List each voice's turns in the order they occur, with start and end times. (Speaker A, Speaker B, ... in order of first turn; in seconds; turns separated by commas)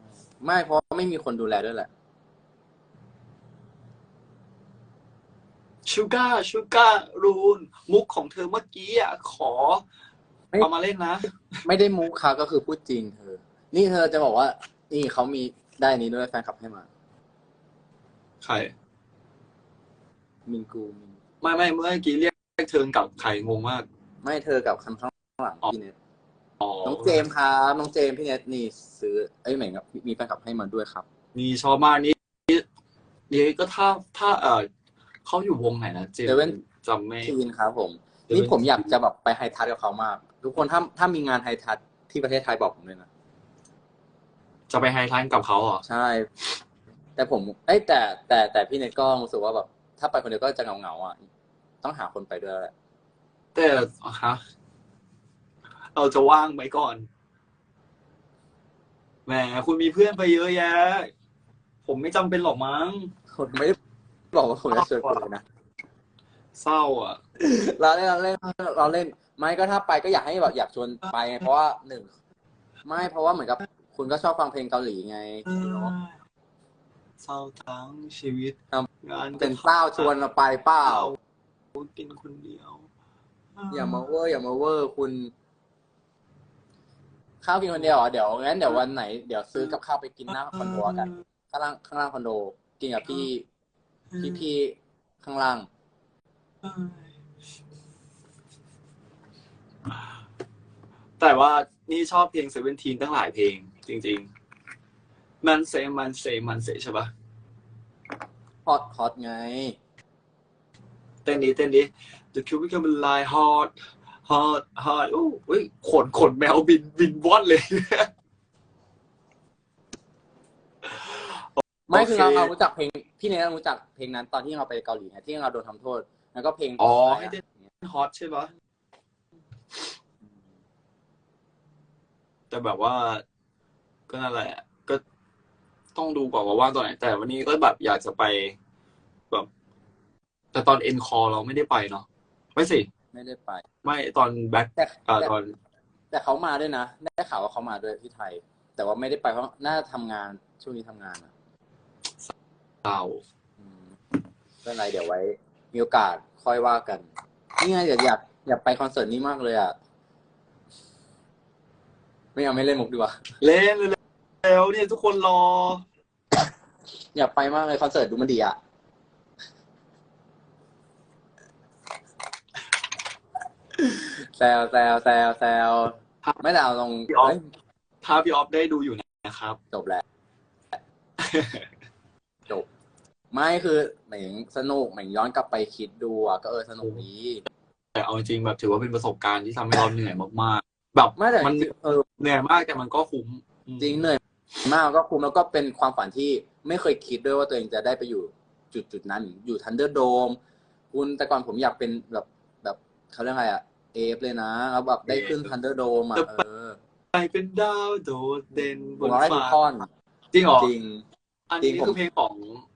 Speaker A: 0.4-1.9, Speaker B: 5.9-9.8, Speaker B: 10.6-11.3, Speaker A: 11.6-16.9, Speaker B: 18.4-18.7, Speaker A: 20.5-21.2, Speaker B: 21.4-23.9, Speaker A: 24.2-25.9, Speaker A: 26.8-31.1, Speaker B: 31.4-32.7, Speaker B: 33.3-34.7, Speaker B: 35.2-37.3, Speaker A: 36.3-36.5, Speaker A: 37.2-43.1, Speaker B: 38.3-38.9, Speaker B: 44.7-45.8, Speaker A: 45.9-46.3, Speaker A: 47.2-51.2, Speaker A: 51.8-52.7, Speaker B: 53.5-54.4, Speaker B: 56.0-57.1, Speaker B: 59.3-61.1, Speaker B: 61.9-63.1, Speaker A: 63.3-63.8, Speaker A: 64.3-65.4, Speaker B: 64.7-65.2, Speaker B: 66.5-67.2, Speaker A: 67.4-72.1, Speaker A: 72.8-75.9, Speaker B: 75.5-76.1, Speaker B: 77.2-80.1, Speaker A: 78.7-81.1, Speaker B: 80.8-81.2, Speaker B: 81.8-82.9, Speaker B: 83.6-84.1, Speaker A: 83.7-85.3, Speaker A: 87.4-93.5, Speaker B: 90.5-91.2, Speaker A: 94.2-95.7, Speaker B: 96.6-97.0, Speaker B: 101.2-104.3, Speaker B: 105.4-107.1, Speaker A: 108.7-109.8, Speaker B: 111.2-113.7, Speaker B: 114.2-118.1, Speaker B: 120.8-122.5, Speaker A: 121.9-127.4, Speaker B: 126.8-128.5, Speaker B: 132.5-133.2, Speaker B: 134.1-135.0, Speaker B: 135.9-138.6, Speaker B: 140.5-142.9, Speaker A: 143.1-143.6, Speaker B: 143.8-145.5, Speaker A: 144.8-145.3, Speaker A: 146.1-151.3, Speaker B: 152.8-153.2, Speaker A: 154.6-157.1, Speaker A: 157.6-159.8, Speaker A: 162.3-163.2, Speaker B: 163.4-165.8, Speaker A: 167.1-168.6, Speaker A: 173.8-177.5, Speaker B: 178.0-179.6, Speaker A: 179.7-180.0, Speaker B: 181.2-181.7, Speaker A: 183.3-187.4, Speaker B: 187.9-191.7, Speaker A: 191.2-192.1, Speaker B: 192.2-194.0, Speaker A: 193.8-200.4, Speaker A: 200.9-206.8, Speaker B: 205.1-205.4, Speaker B: 207.1-209.6, Speaker A: 209.0-209.9, Speaker B: 210.3-210.7, Speaker A: 210.6-211.0, Speaker B: 211.5-212.7, Speaker A: 211.6-212.0